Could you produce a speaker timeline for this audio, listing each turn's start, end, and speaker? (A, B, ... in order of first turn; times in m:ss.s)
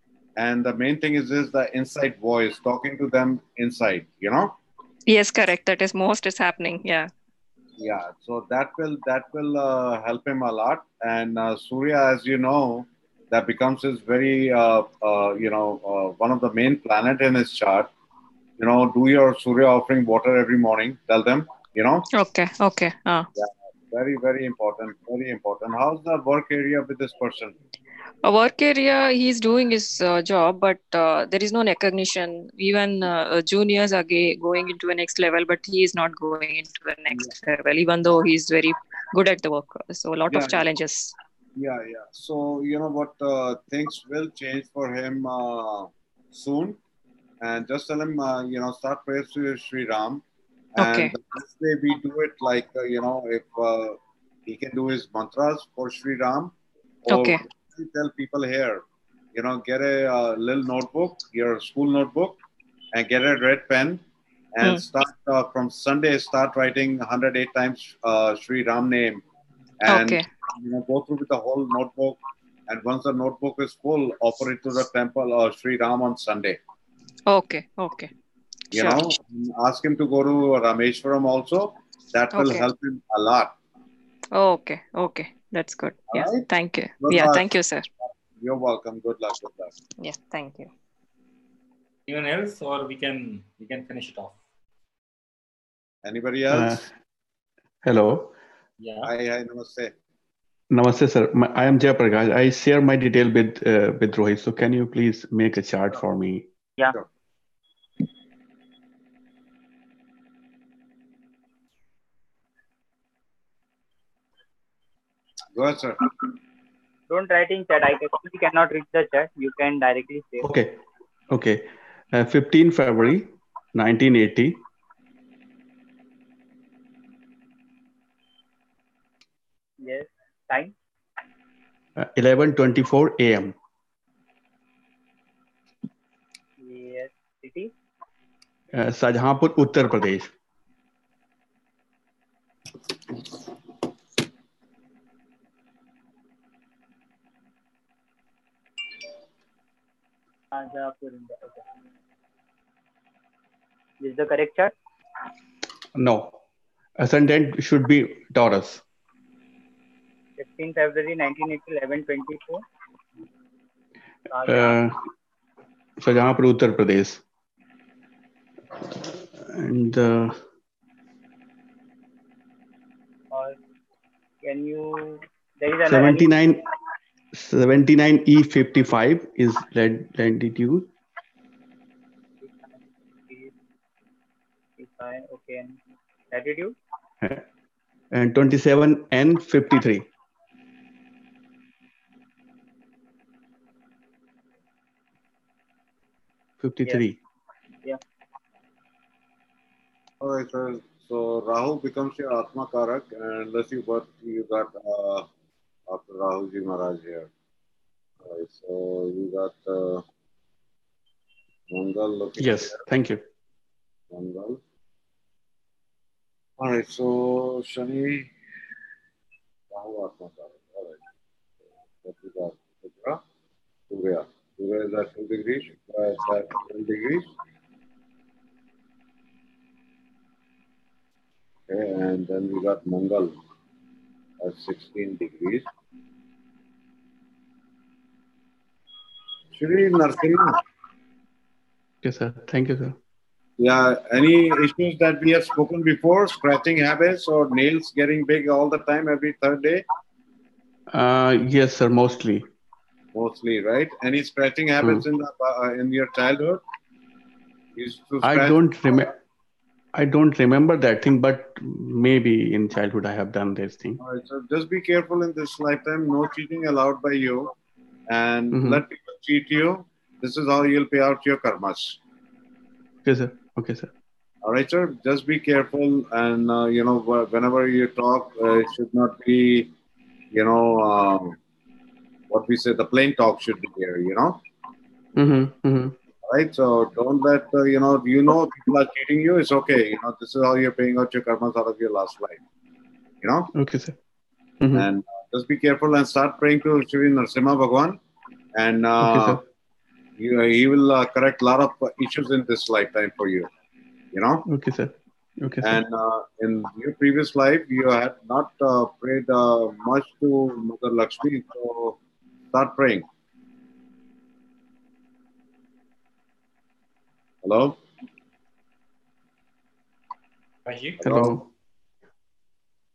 0:00.4-0:04.6 A
0:05.1-0:07.1 B
0:07.8-0:17.9 A
0:18.6-0:22.1 A
0:22.2-0:23.3 B
0:23.4-0:27.6 A
0:28.2-0:41.1 B
0:40.3-0:40.6 A
0:41.6-0:46.8 A
0:47.4-0:50.2 A
0:50.8-0:56.6 A
0:50.8-0:51.1 B
0:57.1-1:02.4 A
0:57.1-0:57.4 B
1:02.9-1:04.0 A
1:04.6-1:09.2 A
1:09.8-1:16.6 A
1:09.9-1:10.3 B
1:17.3-1:18.1 B
1:18.7-1:23.5 A
1:18.7-1:19.1 B
1:22.3-1:22.7 B
1:24.3-1:27.9 B
1:26.1-1:26.5 A
1:27.0-1:27.5 A
1:28.3-1:29.7 A
1:30.0-1:30.7 B
1:32.1-1:34.4 C
1:36.0-1:36.9 A
1:36.5-1:36.9 D
1:37.8-1:38.3 D
1:38.8-1:39.1 C
1:39.0-1:39.9 A
1:40.7-1:46.5 D
1:55.5-1:56.0 A
1:57.1-2:00.5 E
2:00.4-2:00.8 D
2:01.3-2:04.6 D
2:09.8-2:10.8 E
2:12.0-2:13.6 D
2:16.6-2:17.7 E
2:18.8-2:20.3 D
2:30.5-2:31.6 E
2:34.0-2:34.7 E
2:36.0-2:36.4 D
2:37.0-2:38.8 D
2:40.4-2:42.6 E
2:44.3-2:44.8 E
2:44.4-2:45.0 D
2:46.0-2:47.2 D
2:48.9-2:50.4 D
2:53.3-2:53.6 E
2:54.4-2:56.3 E
2:55.9-2:56.6 D
2:57.3-3:00.9 D
3:02.4-3:02.7 E
3:03.3-3:03.5 E
3:04.8-3:05.8 E
3:06.3-3:06.8 E
3:08.1-3:10.1 D
3:16.6-3:17.2 D
3:20.2-3:25.3 A
3:25.9-3:27.3 A
3:28.2-3:30.0 A
3:31.7-3:32.8 A
3:32.4-3:33.2 D
3:34.1-3:34.6 A
3:36.6-3:38.3 A
3:39.7-3:41.0 A
3:42.0-3:43.2 A
3:43.9-3:47.3 A
3:51.7-3:53.4 A
3:54.4-3:55.6 A
3:59.5-4:00.6 A
4:02.0-4:03.0 D
4:03.6-4:09.8 A
4:10.9-4:12.5 D
4:13.2-4:16.6 A
4:17.7-4:18.6 A
4:18.2-4:19.2 D
4:20.0-4:24.0 D
4:24.0-4:27.5 A
4:28.1-4:32.0 A
4:28.5-4:28.8 D
4:33.0-4:33.9 D
4:34.4-4:39.7 A
4:40.3-4:41.4 A
4:42.3-4:44.4 A
4:45.2-4:45.9 D
4:46.2-4:52.4 A
4:53.2-4:53.5 A
4:53.6-4:54.0 D
4:54.6-4:54.9 D
4:54.7-4:58.0 A
4:58.6-4:59.4 A
4:59.0-4:59.4 D
5:00.2-5:03.5 A
5:04.1-5:04.4 A
5:04.5-5:05.8 D
5:05.6-5:12.0 A
5:12.5-5:13.1 A
5:17.4-5:17.8 A
5:20.7-5:21.0 C
5:21.0-5:21.4 A
5:21.0-5:21.4 D